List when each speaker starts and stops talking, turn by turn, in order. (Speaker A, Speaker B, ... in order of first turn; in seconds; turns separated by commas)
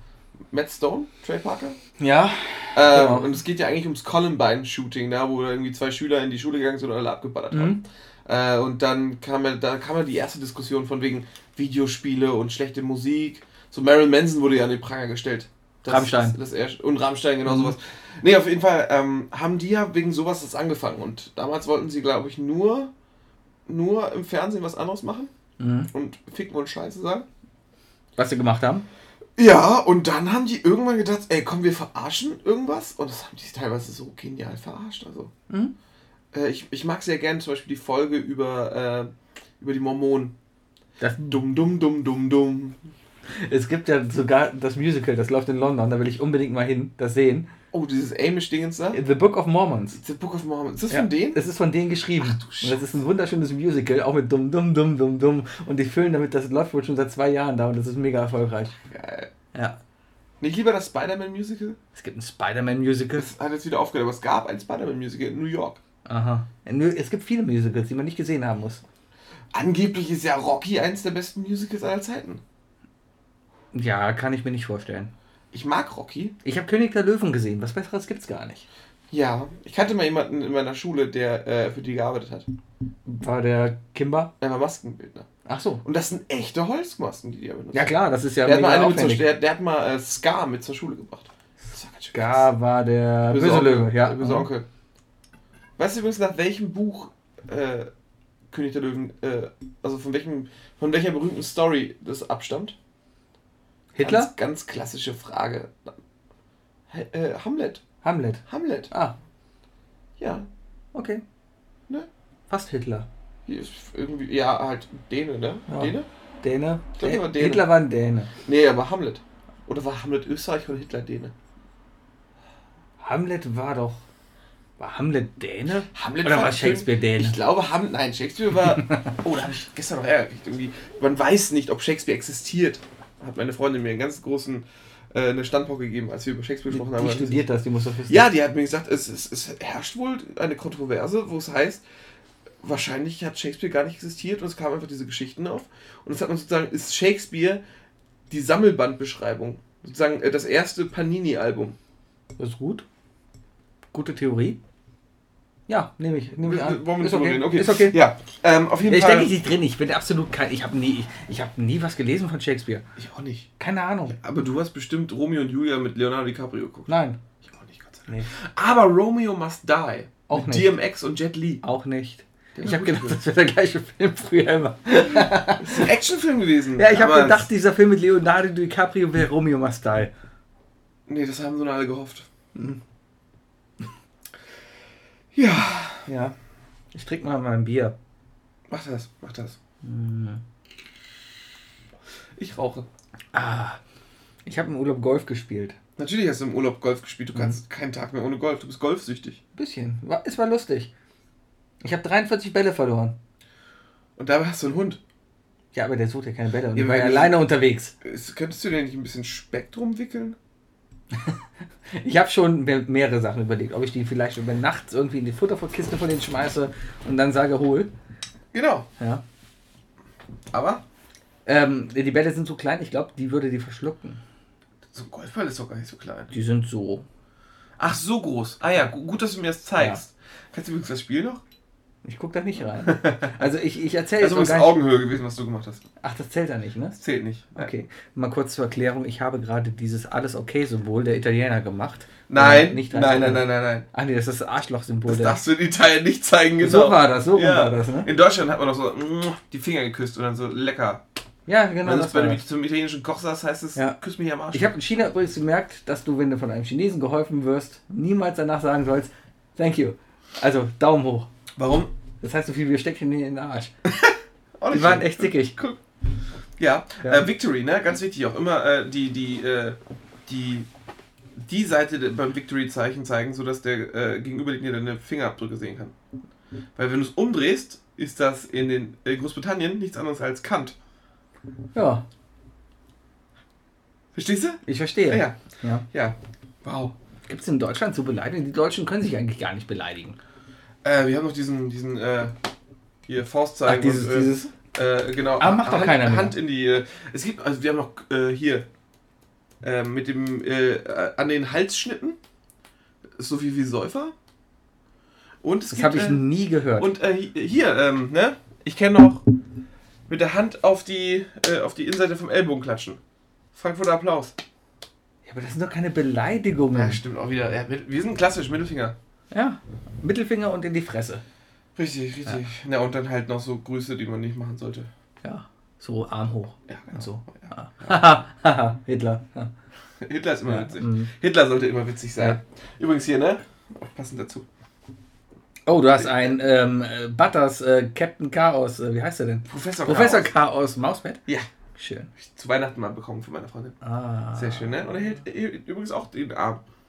Speaker A: 0.5-1.8, Speaker B: 2.0-3.3, Speaker A: 2.8-22.9, Speaker B: 7.5-7.8, Speaker B: 15.9-16.4, Speaker B: 17.5-17.7, Speaker A: 23.7-25.3, Speaker B: 25.6-25.9, Speaker A: 25.9-27.3, Speaker B: 28.2-28.9, Speaker A: 29.4-35.3, Speaker A: 36.3-40.4, Speaker B: 41.0-41.4, Speaker A: 41.3-42.9, Speaker B: 43.4-47.5, Speaker A: 47.7-49.0, Speaker B: 48.9-50.0, Speaker A: 50.0-51.4, Speaker B: 50.9-58.8, Speaker A: 52.2-52.9, Speaker A: 58.9-59.3, Speaker A: 60.4-61.8, Speaker B: 62.0-63.3, Speaker A: 63.2-65.8, Speaker B: 66.1-68.8, Speaker A: 69.5-72.4, Speaker B: 73.7-75.1, Speaker A: 75.5-76.4, Speaker B: 76.4-78.7, Speaker A: 79.1-82.5, Speaker B: 83.1-84.3, Speaker A: 84.4-85.3, Speaker B: 85.5-85.8, Speaker A: 85.8-92.5, Speaker B: 87.7-89.3, Speaker B: 92.1-94.5, Speaker A: 93.3-94.7, Speaker A: 95.8-97.9, Speaker A: 98.5-102.8, Speaker B: 103.9-104.3, Speaker A: 104.0-106.0, Speaker A: 106.9-107.8, Speaker B: 108.0-109.2, Speaker A: 108.5-108.9, Speaker A: 110.2-110.5, Speaker B: 110.9-111.2, Speaker B: 112.5-113.1, Speaker A: 113.5-116.1, Speaker B: 115.7-118.3, Speaker A: 117.0-117.7, Speaker A: 118.5-121.3, Speaker B: 123.0-124.0, Speaker B: 124.8-127.4, Speaker A: 125.9-137.4, Speaker B: 128.6-129.2, Speaker B: 136.7-138.3, Speaker A: 138.1-141.8, Speaker A: 142.6-147.6, Speaker A: 148.3-151.8, Speaker B: 152.4-152.8, Speaker B: 153.9-154.6, Speaker B: 155.7-158.0, Speaker A: 156.4-159.3, Speaker B: 158.9-162.9, Speaker A: 163.0-163.5, Speaker B: 163.6-164.2, Speaker A: 164.1-166.9, Speaker B: 166.9-167.2, Speaker A: 167.4-171.6, Speaker B: 170.3-170.8, Speaker B: 171.6-175.9, Speaker A: 172.6-173.2, Speaker A: 175.1-177.5, Speaker B: 176.8-180.1, Speaker A: 181.1-182.3, Speaker B: 182.6-182.8, Speaker A: 185.3-186.1, Speaker B: 186.1-186.3, Speaker B: 186.9-188.0, Speaker A: 188.7-189.6, Speaker B: 189.8-190.4, Speaker A: 192.4-192.9, Speaker B: 193.3-193.8, Speaker B: 194.5-195.8, Speaker A: 196.0-199.4, Speaker B: 199.6-200.9, Speaker B: 201.8-203.2, Speaker A: 204.2-205.0, Speaker B: 205.7-207.9, Speaker A: 206.7-207.4, Speaker A: 208.0-210.4, Speaker B: 211.1-211.4, Speaker B: 211.9-217.9, Speaker A: 218.5-218.9, Speaker A: 220.5-220.8, Speaker B: 221.5-224.2, Speaker A: 224.9-226.3, Speaker B: 226.3-227.1, Speaker A: 227.8-231.4, Speaker B: 232.1-234.8, Speaker A: 232.8-233.4, Speaker A: 234.2-235.8, Speaker B: 236.0-237.0, Speaker A: 237.0-237.7, Speaker B: 237.6-245.4, Speaker A: 242.3-243.9, Speaker A: 245.1-251.0, Speaker B: 246.6-248.1, Speaker B: 251.5-252.4, Speaker A: 251.8-254.7, Speaker B: 254.5-261.3, Speaker A: 261.6-261.9, Speaker B: 262.2-263.7, Speaker A: 264.0-265.8, Speaker B: 264.7-265.6, Speaker A: 266.6-270.7, Speaker A: 271.4-275.9, Speaker A: 276.8-280.8, Speaker B: 281.7-282.0, Speaker A: 284.1-285.4, Speaker B: 284.7-285.9, Speaker A: 285.9-286.9, Speaker B: 287.3-290.2, Speaker A: 290.8-292.4, Speaker A: 293.1-298.7, Speaker B: 293.7-294.5, Speaker B: 295.4-296.4, Speaker A: 299.6-302.2, Speaker A: 303.2-304.1, Speaker A: 305.4-306.2, Speaker B: 305.7-306.9, Speaker A: 306.8-309.2, Speaker A: 310.1-313.0, Speaker A: 313.5-314.4, Speaker B: 315.3-317.0, Speaker A: 316.7-319.0, Speaker B: 319.3-321.2, Speaker A: 321.8-324.9, Speaker B: 325.2-329.5, Speaker A: 326.7-328.0, Speaker A: 330.0-334.5, Speaker B: 330.5-331.1, Speaker B: 335.7-341.2, Speaker A: 336.0-336.4, Speaker A: 339.5-340.3, Speaker B: 341.8-342.1, Speaker A: 342.2-343.8, Speaker B: 343.8-344.9, Speaker A: 344.4-346.6